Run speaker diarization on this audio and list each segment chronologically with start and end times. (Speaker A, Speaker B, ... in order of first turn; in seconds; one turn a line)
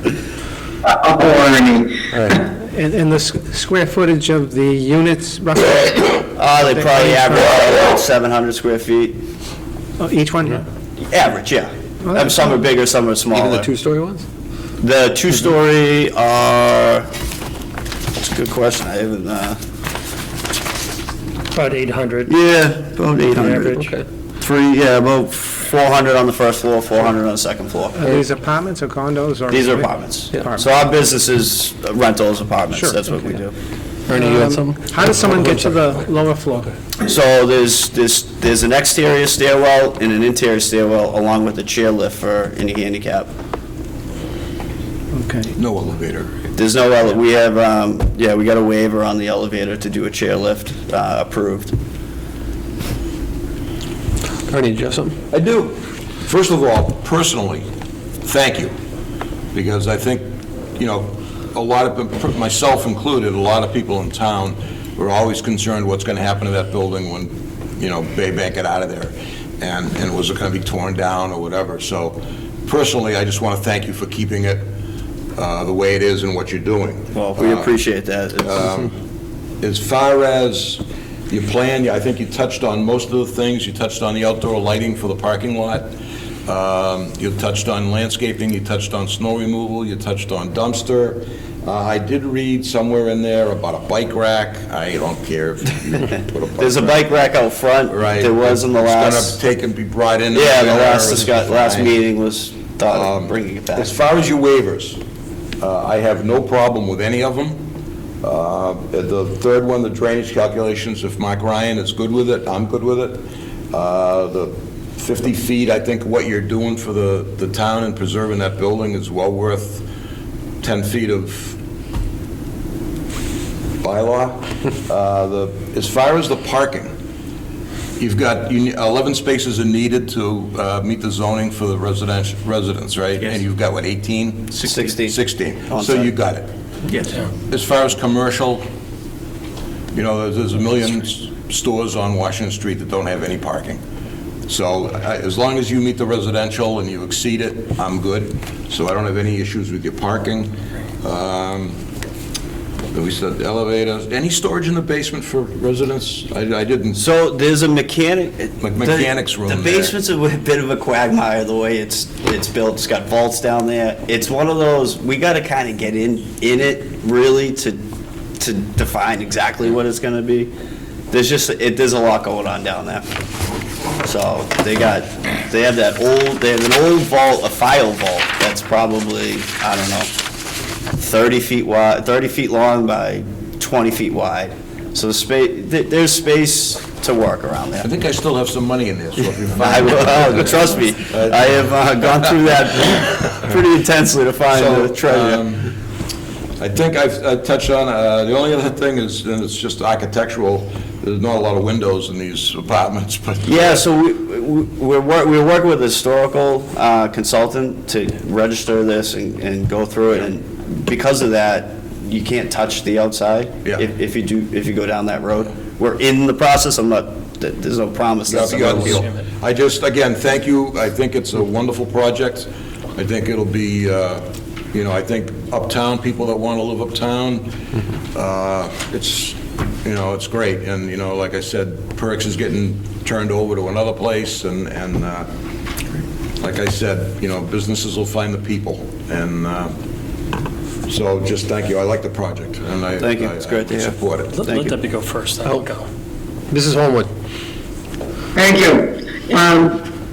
Speaker A: 0.8-2.5
Speaker B: 2.6-7.2
Speaker C: 6.3-9.2
Speaker B: 10.0-10.6
Speaker C: 11.0-13.7
Speaker B: 12.0-12.4
Speaker D: 13.3-14.2
Speaker C: 14.8-17.1
Speaker C: 18.2-19.6
Speaker E: 21.5-22.3
Speaker C: 22.2-23.9
Speaker E: 23.3-24.0
Speaker D: 23.7-24.0
Speaker C: 24.4-28.1
Speaker B: 27.9-30.7
Speaker C: 29.5-33.5
Speaker B: 32.7-33.1
Speaker D: 34.1-35.9
Speaker B: 34.1-36.7
Speaker C: 37.0-43.3
Speaker B: 45.1-45.5
Speaker F: 45.5-46.3
Speaker C: 46.5-51.7
Speaker D: 54.5-55.1
Speaker F: 55.3-57.6
Speaker F: 58.2-58.7
Speaker F: 59.5-60.2
Speaker F: 60.8-74.7
Speaker F: 75.3-77.7
Speaker C: 77.1-78.8
Speaker F: 78.4-78.9
Speaker F: 79.6-85.9
Speaker F: 86.5-97.1
Speaker C: 96.6-99.4
Speaker F: 97.9-101.9
Speaker C: 100.3-103.9
Speaker F: 102.9-105.0
Speaker F: 105.6-107.6
Speaker F: 108.2-119.9
Speaker F: 120.6-121.6
Speaker F: 123.8-126.9
Speaker F: 128.0-136.5
Speaker C: 134.5-136.1
Speaker C: 136.9-137.1
Speaker F: 137.5-138.6
Speaker F: 139.9-143.8
Speaker F: 144.5-151.8
Speaker F: 152.9-157.0
Speaker C: 156.9-167.8
Speaker F: 158.6-159.9
Speaker C: 168.4-170.5
Speaker C: 171.1-173.2
Speaker C: 174.0-180.1
Speaker C: 180.9-187.9
Speaker F: 187.8-192.2
Speaker C: 189.6-195.5
Speaker F: 194.5-195.7
Speaker F: 196.6-203.8
Speaker C: 203.4-219.0
Speaker F: 218.3-227.6
Speaker E: 218.8-219.2
Speaker F: 228.1-235.3
Speaker F: 236.4-239.8
Speaker F: 240.9-244.4
Speaker C: 243.0-244.8
Speaker E: 244.3-245.9
Speaker D: 246.5-247.1
Speaker A: 248.3-249.8